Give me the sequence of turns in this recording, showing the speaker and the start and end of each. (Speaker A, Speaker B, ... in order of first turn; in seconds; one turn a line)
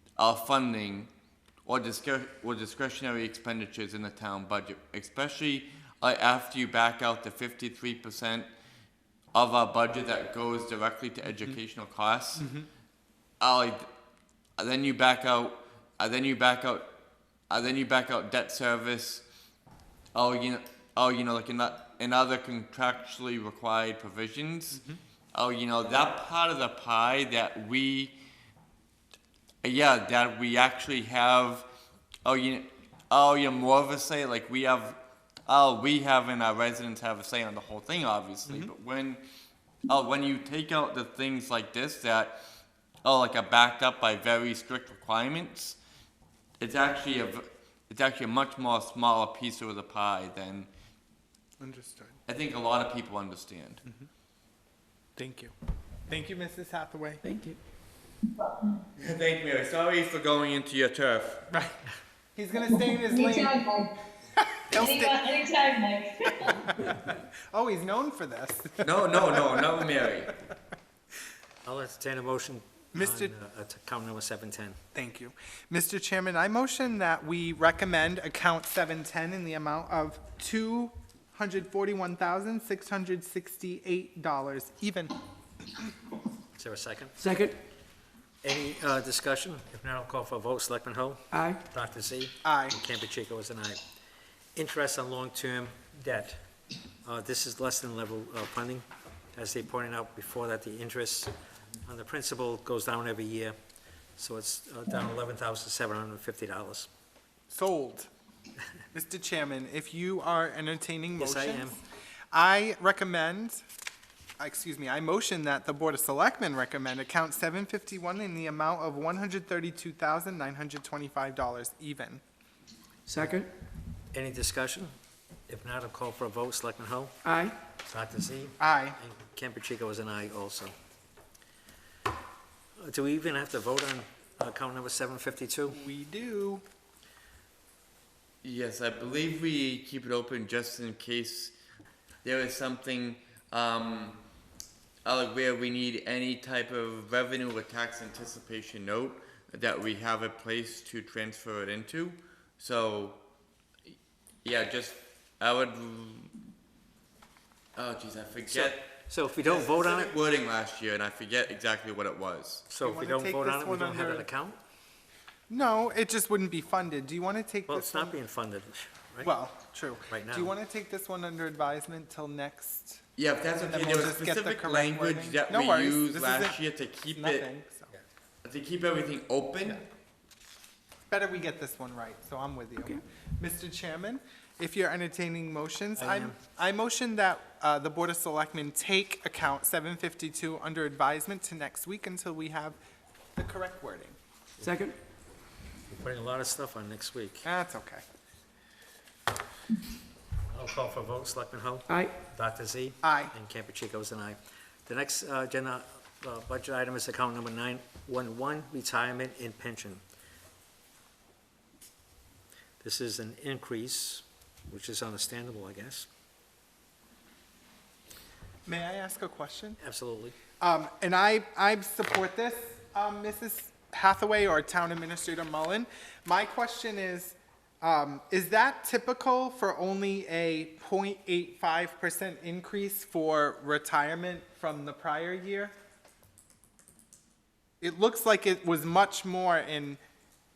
Speaker A: 0.2-1.1
Speaker A: 1.6-8.5
Speaker A: 9.3-12.4
Speaker B: 12.4-12.7
Speaker A: 13.4-13.9
Speaker A: 14.6-16.9
Speaker A: 17.5-19.2
Speaker A: 20.1-24.8
Speaker B: 24.7-25.0
Speaker A: 25.3-28.2
Speaker A: 29.6-31.7
Speaker A: 32.2-39.2
Speaker B: 38.5-38.7
Speaker A: 39.9-42.4
Speaker A: 43.0-45.8
Speaker A: 46.6-50.7
Speaker B: 51.6-52.2
Speaker A: 52.3-53.8
Speaker B: 55.2-55.5
Speaker B: 56.1-57.2
Speaker C: 57.2-57.6
Speaker D: 58.2-58.8
Speaker A: 59.0-61.4
Speaker B: 61.5-61.8
Speaker B: 62.4-63.5
Speaker D: 62.6-63.9
Speaker B: 64.4-65.3
Speaker D: 64.7-66.8
Speaker B: 66.6-70.3
Speaker A: 68.8-70.3
Speaker E: 71.6-74.8
Speaker B: 72.9-73.3
Speaker B: 74.9-85.1
Speaker E: 86.6-87.1
Speaker C: 87.2-87.5
Speaker E: 88.4-93.8
Speaker C: 91.3-91.6
Speaker B: 92.4-92.8
Speaker E: 94.5-96.4
Speaker E: 97.0-103.5
Speaker E: 104.2-106.9
Speaker B: 107.5-108.1
Speaker B: 108.9-113.6
Speaker E: 111.2-111.8
Speaker B: 114.4-122.2
Speaker C: 123.1-123.5
Speaker E: 124.1-124.9
Speaker E: 125.5-127.1
Speaker C: 127.2-127.5
Speaker E: 127.8-130.7
Speaker B: 128.6-129.0
Speaker E: 132.8-135.8
Speaker B: 135.7-136.6
Speaker A: 138.4-141.5
Speaker A: 142.2-144.2
Speaker A: 145.0-153.2
Speaker A: 154.4-156.3
Speaker A: 157.8-162.6
Speaker E: 158.4-160.2
Speaker E: 162.7-164.6
Speaker B: 162.8-164.3
Speaker B: 165.5-168.2
Speaker E: 167.7-169.3
Speaker B: 169.2-173.0
Speaker E: 170.1-170.5
Speaker A: 173.2-177.5
Speaker B: 173.6-177.9
Speaker A: 178.4-179.8
Speaker B: 181.1-192.8
Speaker E: 186.0-186.4
Speaker B: 193.3-194.2
Speaker C: 194.6-195.0
Speaker E: 195.9-197.4
Speaker B: 197.4-198.0
Speaker E: 200.5-210.0
Speaker C: 201.9-202.1
Speaker B: 203.0-203.3
Speaker E: 212.8-216.1
Speaker B: 218.7-219.8
Speaker E: 219.8-220.3
Speaker B: 220.6-235.7
Speaker B: 237.8-240.0